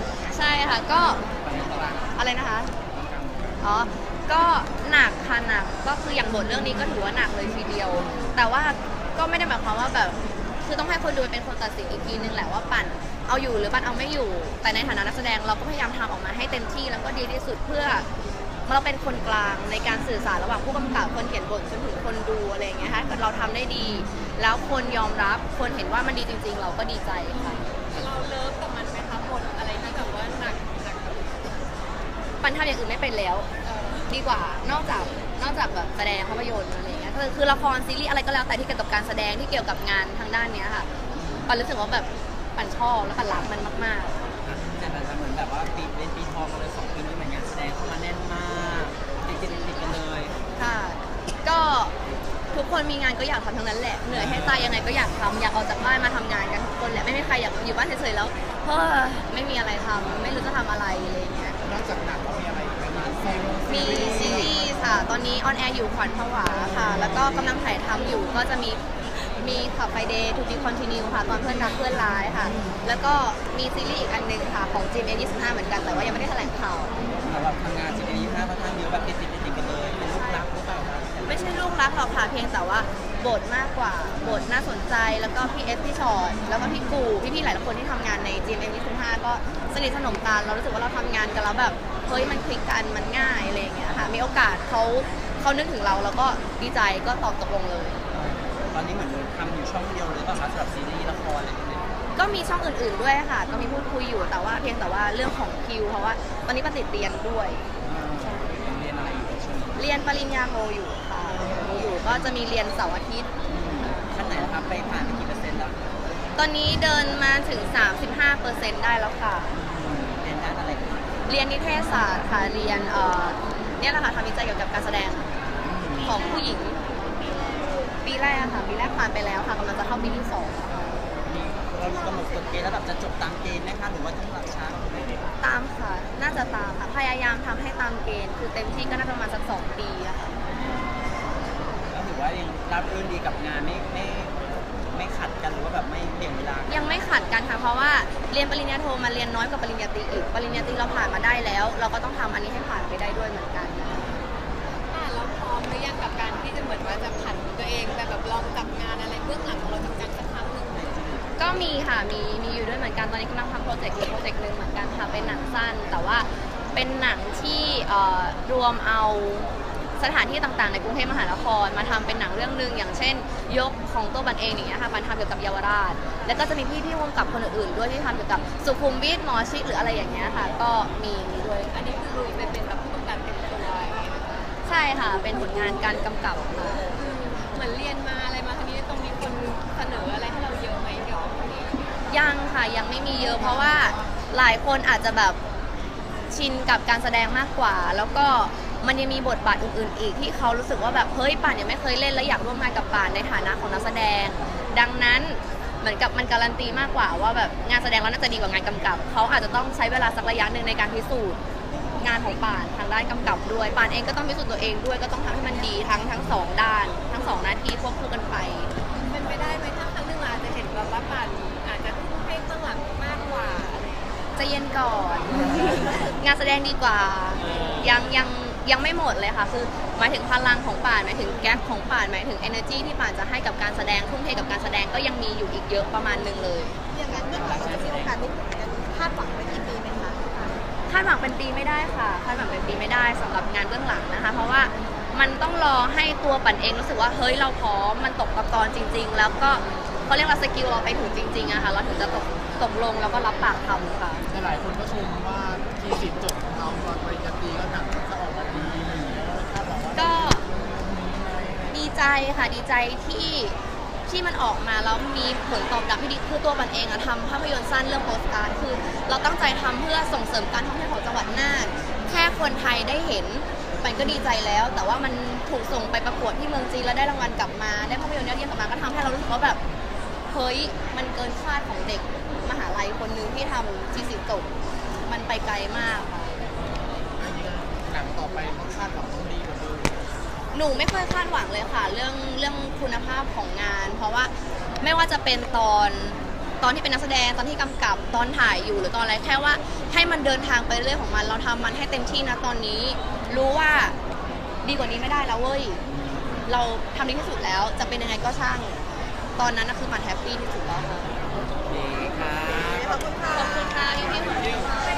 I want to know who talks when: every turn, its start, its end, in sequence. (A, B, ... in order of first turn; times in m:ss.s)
0:00.2-0:01.2 A
0:01.4-0:02.2 B
0:02.1-0:02.7 A
0:02.9-0:03.6 B
0:03.6-0:18.1 A
0:08.0-0:08.4 B
0:18.7-0:27.6 A
0:22.8-0:23.2 B
0:27.6-0:28.1 B
0:28.0-0:31.2 C
0:32.4-0:33.5 A
0:33.6-0:34.0 C
0:34.1-0:40.9 A
0:41.1-0:41.5 B
0:41.5-0:44.1 A
0:44.4-0:50.4 B
0:50.6-0:51.9 A
0:52.5-1:01.6 A
0:54.1-0:54.6 B
1:01.6-1:04.5 D
1:03.7-1:16.9 A
1:15.9-1:16.1 B
1:17.2-1:21.6 B
1:21.2-1:38.0 A
1:24.2-1:24.4 B
1:33.9-1:34.2 B
1:38.1-1:41.9 B
1:42.1-1:47.6 A
1:47.8-1:49.8 B
1:48.2-1:48.4 A
1:49.8-1:53.3 A
1:52.0-1:52.3 B
1:53.5-1:55.8 B
1:53.8-1:54.1 A
1:56.3-1:59.5 A
1:59.5-2:01.0 B
2:01.3-2:05.3 A
2:05.6-2:06.1 B
2:06.0-2:06.8 A
2:08.0-2:11.1 A
2:11.2-2:15.2 B
2:15.4-2:20.3 A
2:18.7-2:19.1 B
2:20.5-2:27.0 B
2:26.7-2:34.2 A
2:34.9-2:40.8 C
2:40.7-2:41.4 B
2:41.4-3:01.8 A
2:45.1-2:45.6 B
3:01.8-3:04.5 C
3:04.6-3:06.8 A
3:07.0-3:12.0 C
3:12.1-3:15.4 A
3:16.3-3:31.4 A
3:32.0-3:38.7 A
3:39.0-3:44.0 C
3:44.3-3:56.7 A
3:56.9-4:00.5 C
3:57.1-3:58.2 B
4:00.9-4:14.2 A
4:14.3-4:21.8 D
4:18.5-4:19.3 B
4:19.9-4:20.4 A
4:21.7-4:39.6 A
4:40.3-4:44.5 A
4:45.0-4:46.3 A
4:47.1-4:50.0 D
4:50.5-5:04.0 A
5:04.6-5:05.8 A
5:05.8-5:06.5 B
5:06.4-5:11.1 A
5:11.4-5:13.0 B
5:13.3-5:14.6 A